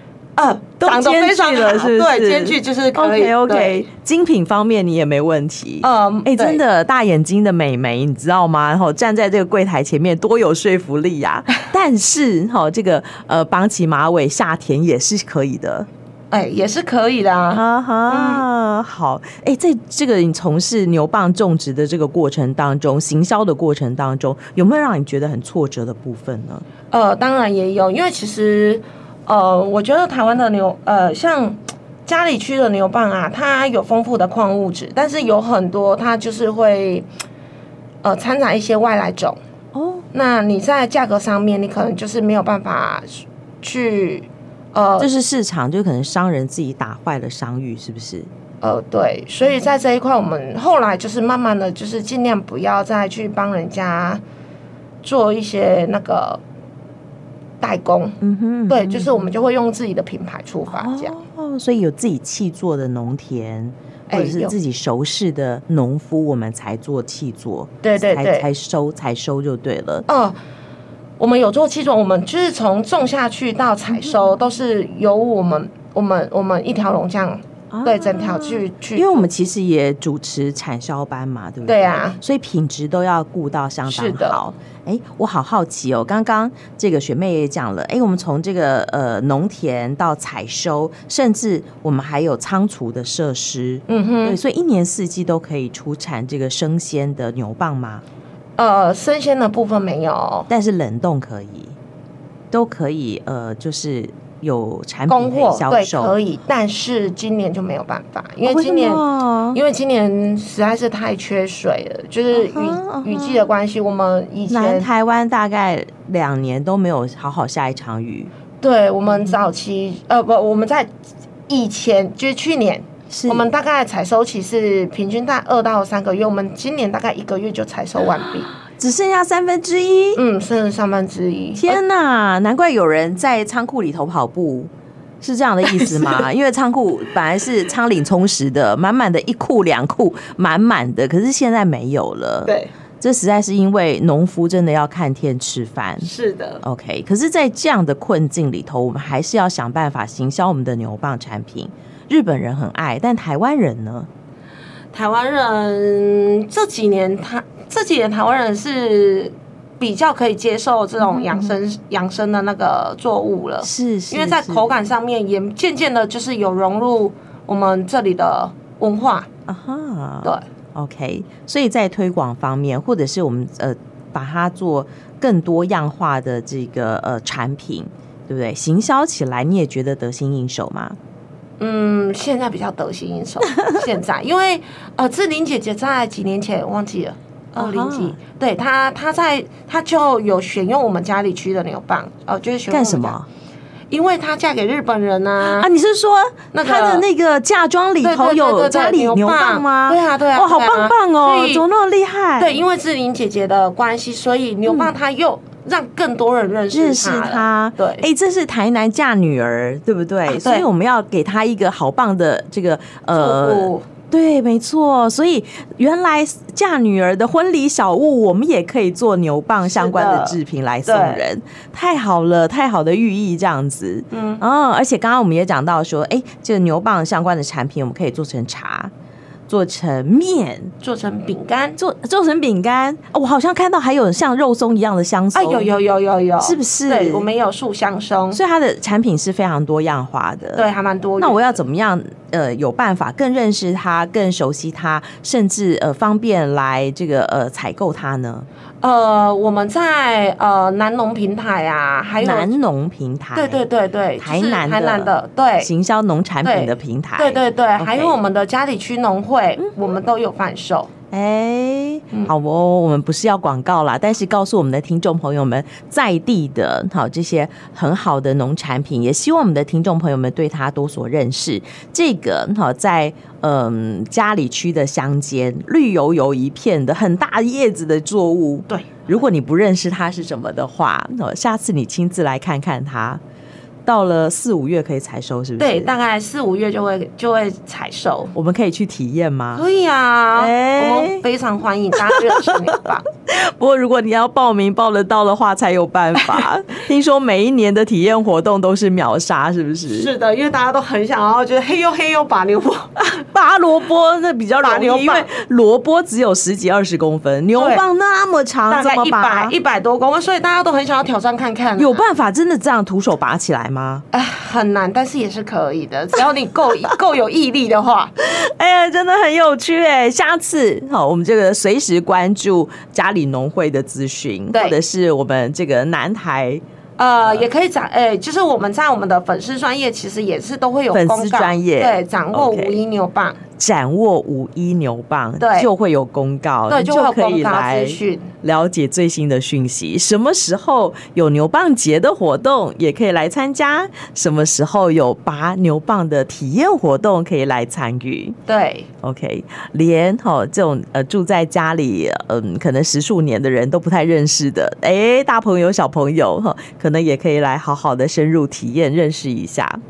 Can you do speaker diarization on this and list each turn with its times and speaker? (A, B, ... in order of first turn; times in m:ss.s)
0:00.4-0:03.9 A
0:00.8-0:15.9 B
0:05.8-0:06.6 A
0:16.3-0:18.4 A
0:17.5-0:26.6 B
0:26.9-0:37.1 A
0:38.0-0:39.4 A
0:39.8-0:40.0 B
0:40.1-0:45.1 A
0:45.0-0:48.3 B
0:48.6-0:54.2 A
0:55.0-0:56.4 A
0:57.6-1:01.1 A
0:58.2-0:59.3 B
1:00.7-1:10.1 B
1:04.1-1:04.5 A
1:07.8-1:08.5 A
1:10.1-1:10.4 A
1:11.2-1:19.3 A
1:17.7-1:38.0 B
1:21.6-1:22.2 A
1:23.9-1:24.4 A
1:33.9-1:34.4 A
1:38.6-1:40.5 A
1:40.5-1:41.8 B
1:42.5-1:46.1 B
1:45.1-1:49.0 A
1:48.4-1:49.6 B
1:49.5-1:54.9 A
1:52.3-1:53.5 B
1:54.5-1:58.3 B
1:58.6-2:00.9 A
1:59.1-1:59.4 B
2:01.5-2:08.5 A
2:03.1-2:03.5 B
2:08.7-2:10.2 B
2:10.2-2:11.8 A
2:11.6-2:14.7 B
2:15.2-2:26.1 B
2:15.7-2:16.2 A
2:26.0-2:26.6 A
2:26.6-2:34.1 B
2:34.9-2:49.3 A
2:41.0-2:41.6 B
2:43.6-2:44.6 B
2:49.5-3:01.0 B
3:01.6-3:13.2 A
3:07.6-3:08.2 B
3:12.7-3:13.3 B
3:13.9-3:15.7 A
3:15.4-3:22.6 B
3:16.5-3:17.1 A
3:18.0-3:21.6 A
3:22.4-3:28.1 A
3:26.7-3:48.9 B
3:30.3-3:30.7 A
3:33.1-3:33.8 A
3:39.6-3:41.2 A
3:44.1-3:44.4 A
3:49.5-3:50.7 B
3:50.8-3:51.8 A
3:51.8-3:55.7 B
3:55.4-3:58.4 A
3:56.4-3:57.3 B
3:58.3-4:00.6 B
4:00.6-4:01.6 A
4:01.2-4:08.5 B
4:08.8-4:12.5 A
4:12.2-4:13.6 B
4:13.4-4:15.7 A
4:14.2-4:18.2 B
4:16.4-4:20.9 A
4:21.1-4:43.2 B
4:43.9-4:45.9 B
4:45.6-4:48.3 A
4:48.4-4:49.6 B
4:49.6-4:53.0 A
4:50.4-4:51.2 B
4:52.0-5:00.1 B
4:59.9-5:02.9 A
5:03.0-5:09.6 B
5:04.6-5:05.3 A
5:07.6-5:07.8 A
5:08.7-5:12.0 A
5:11.8-5:14.0 B
5:14.1-5:18.1 A
5:18.2-5:26.6 B
5:24.5-5:24.8 A
5:27.0-5:33.4 A
5:30.9-5:32.8 B
5:33.6-5:48.4 B
5:35.4-5:35.7 A
5:36.7-5:38.3 A
5:48.5-5:48.9 A
5:49.0-5:59.8 B